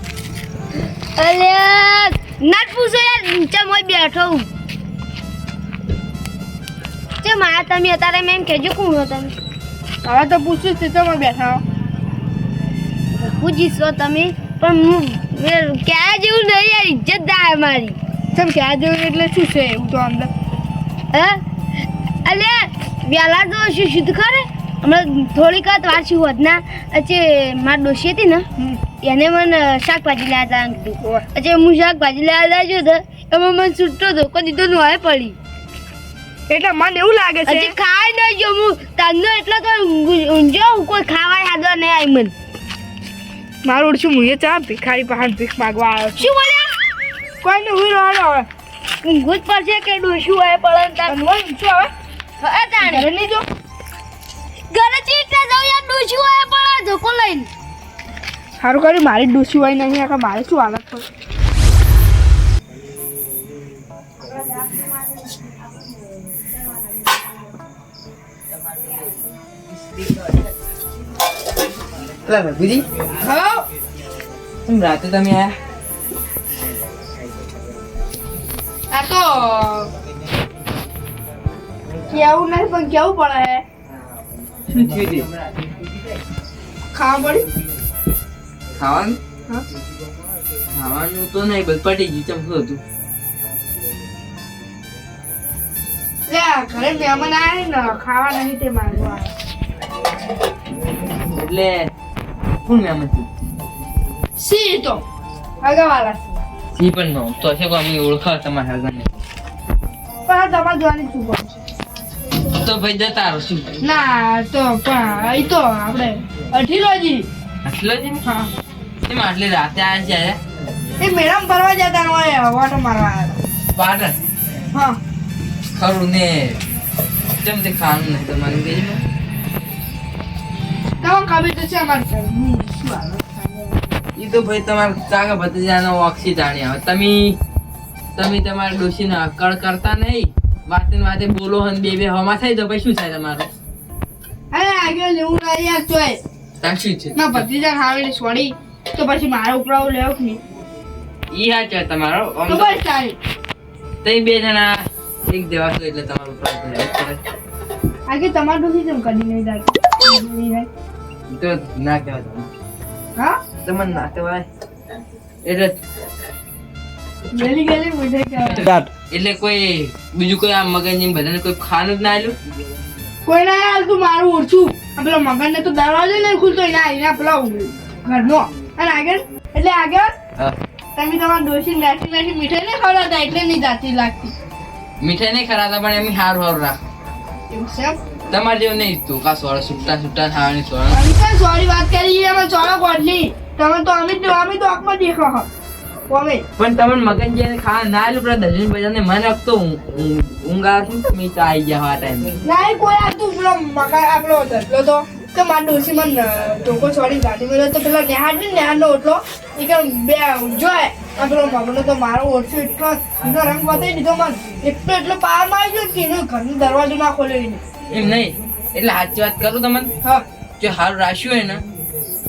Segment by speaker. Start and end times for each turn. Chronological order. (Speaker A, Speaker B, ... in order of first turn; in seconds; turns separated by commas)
Speaker A: 1.2-4.5, Speaker A: 7.2-9.3, Speaker B: 10.0-11.6, Speaker A: 13.2-18.0, Speaker B: 18.3-20.3, Speaker A: 21.1-21.4, Speaker A: 22.2-28.4, Speaker A: 29.0-35.4, Speaker B: 36.5-37.7, Speaker A: 37.5-42.3, Speaker B: 43.6-46.3, Speaker A: 46.2-46.7, Speaker B: 47.4-48.5, Speaker A: 49.0-51.1, Speaker B: 51.1-51.9, Speaker A: 52.4-53.1, Speaker B: 52.8-53.4, Speaker A: 54.7-57.5, Speaker B: 58.6-61.1, Speaker C: 72.3-72.9, Speaker B: 73.2-73.7, Speaker C: 74.7-75.6, Speaker B: 78.9-79.9, Speaker B: 82.1-83.6, Speaker C: 84.7-85.3, Speaker B: 86.9-87.5, Speaker C: 88.8-89.2, Speaker C: 90.7-92.8, Speaker B: 96.3-99.3, Speaker C: 101.3-101.9, Speaker C: 102.7-103.3, Speaker B: 104.4-105.0, Speaker B: 105.6-106.2, Speaker C: 106.8-109.2, Speaker B: 110.3-111.5, Speaker C: 112.5-113.8, Speaker B: 113.8-117.3, Speaker C: 117.7-118.2, Speaker C: 119.1-120.4, Speaker B: 121.0-123.4, Speaker C: 123.8-124.2, Speaker B: 124.7-125.0, Speaker C: 125.8-126.6, Speaker C: 127.4-129.0, Speaker B: 131.0-133.8, Speaker C: 134.2-137.4, Speaker C: 138.2-143.5, Speaker B: 144.5-146.2, Speaker C: 146.6-147.4, Speaker B: 147.2-150.4, Speaker C: 151.3-152.8, Speaker B: 152.5-153.2, Speaker C: 154.0-157.2, Speaker B: 158.1-160.7, Speaker C: 161.3-162.5, Speaker C: 163.6-164.5, Speaker C: 165.4-165.8, Speaker B: 167.3-168.7, Speaker C: 168.4-172.3, Speaker B: 173.2-180.2, Speaker B: 181.0-184.3, Speaker C: 185.0-186.8, Speaker B: 187.5-188.0, Speaker C: 188.3-191.0, Speaker B: 190.9-195.5, Speaker B: 196.1-196.4, Speaker C: 196.6-202.3, Speaker B: 202.4-217.6, Speaker C: 217.9-219.9, Speaker C: 220.6-221.6